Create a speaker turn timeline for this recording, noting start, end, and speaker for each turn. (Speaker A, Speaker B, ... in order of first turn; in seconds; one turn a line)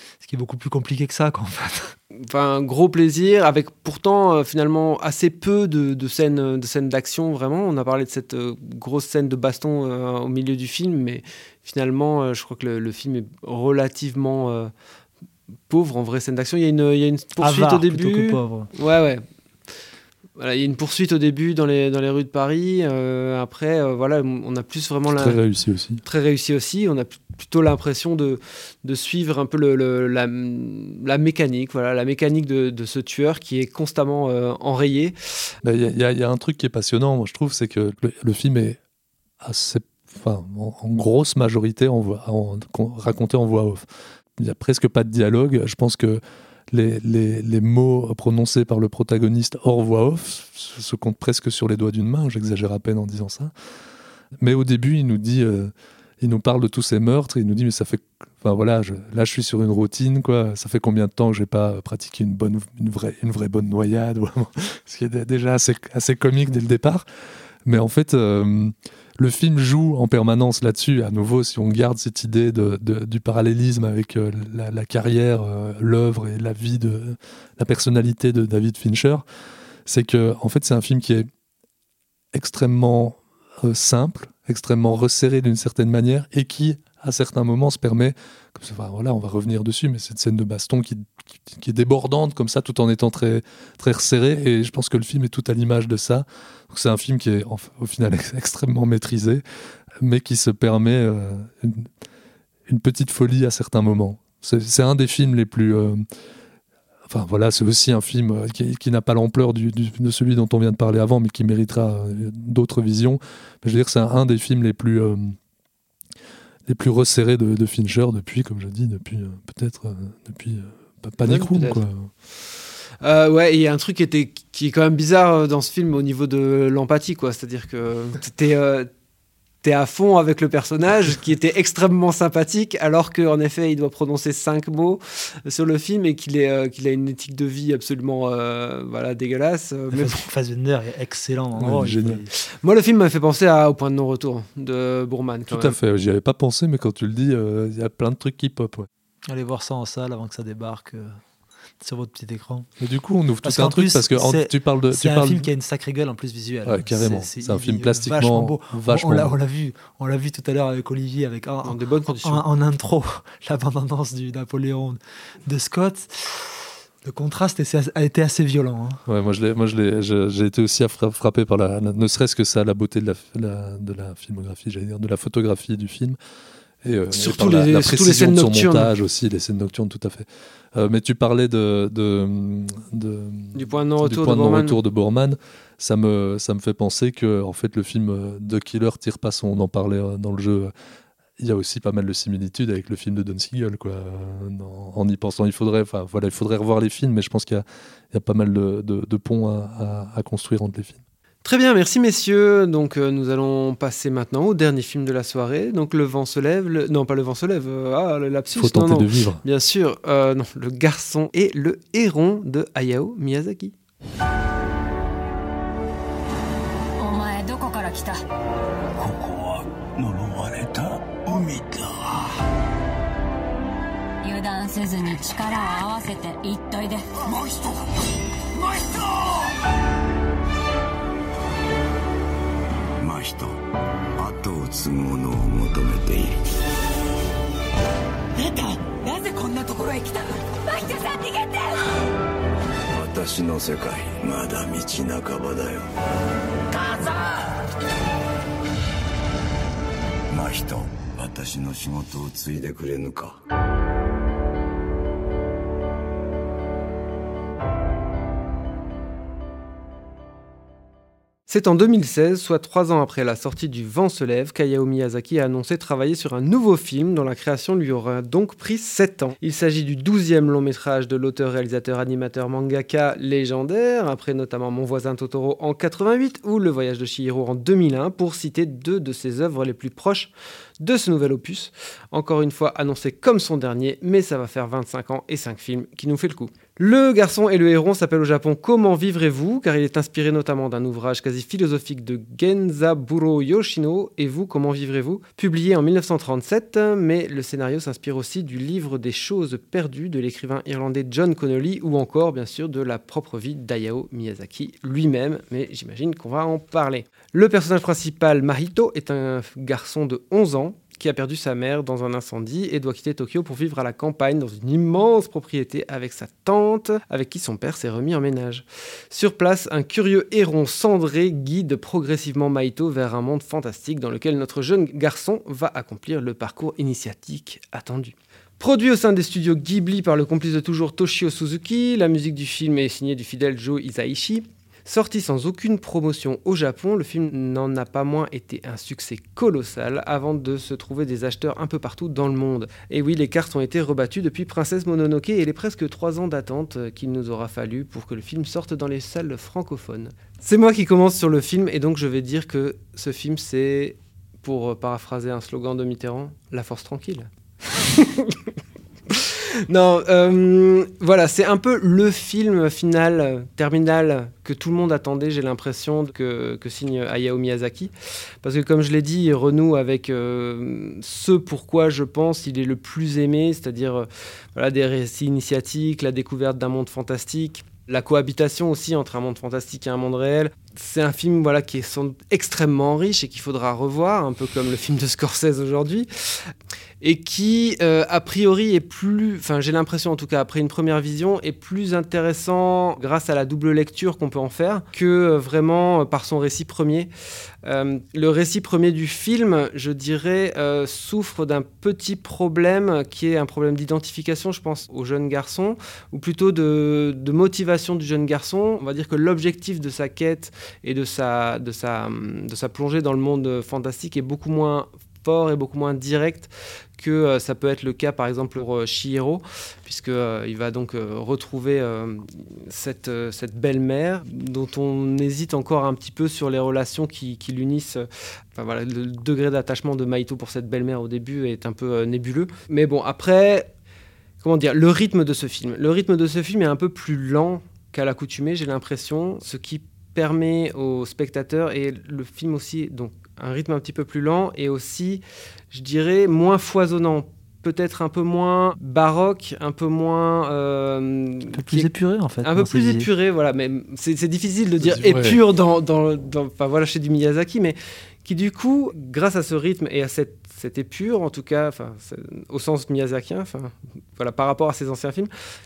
Speaker A: 0.2-1.9
Speaker B: 2.2-14.7
Speaker B: 15.7-19.2
Speaker A: 17.4-18.7
Speaker B: 20.4-25.4
Speaker C: 25.1-26.0
Speaker B: 26.0-35.1
Speaker C: 35.6-38.8
Speaker C: 39.4-43.9
Speaker C: 44.4-53.5
Speaker C: 54.4-67.0
Speaker C: 67.6-79.2
Speaker C: 79.8-81.3
Speaker C: 82.3-99.4
Speaker C: 100.0-101.9
Speaker C: 102.7-106.0
Speaker C: 107.1-115.3
Speaker C: 116.7-122.1
Speaker B: 121.2-121.8
Speaker B: 123.0-128.9
Speaker B: 129.6-140.2
Speaker A: 139.9-142.3
Speaker C: 141.6-142.2
Speaker B: 142.6-145.8
Speaker C: 145.5-148.9
Speaker A: 149.3-151.2
Speaker A: 151.8-152.7
Speaker C: 152.8-155.5
Speaker A: 153.4-169.0
Speaker C: 156.7-159.3
Speaker B: 161.6-162.4
Speaker C: 169.1-176.2
Speaker C: 176.8-190.7
Speaker B: 177.1-178.9
Speaker B: 183.5-184.8
Speaker C: 191.4-201.0
Speaker B: 201.4-213.7
Speaker C: 208.5-209.4
Speaker D: 217.0-218.2
Speaker E: 218.9-222.3
Speaker D: 224.2-227.1
Speaker E: 228.6-229.3
Speaker E: 233.0-233.6
Speaker E: 234.2-236.4
Speaker D: 238.4-241.7
Speaker E: 242.9-245.9
Speaker E: 250.3-253.4
Speaker B: 261.5-358.4
Speaker B: 359.1-367.9
Speaker B: 368.4-397.1
Speaker B: 397.6-433.7
Speaker B: 434.4-451.9
Speaker A: 451.5-453.1
Speaker B: 452.4-465.3
Speaker C: 454.8-455.4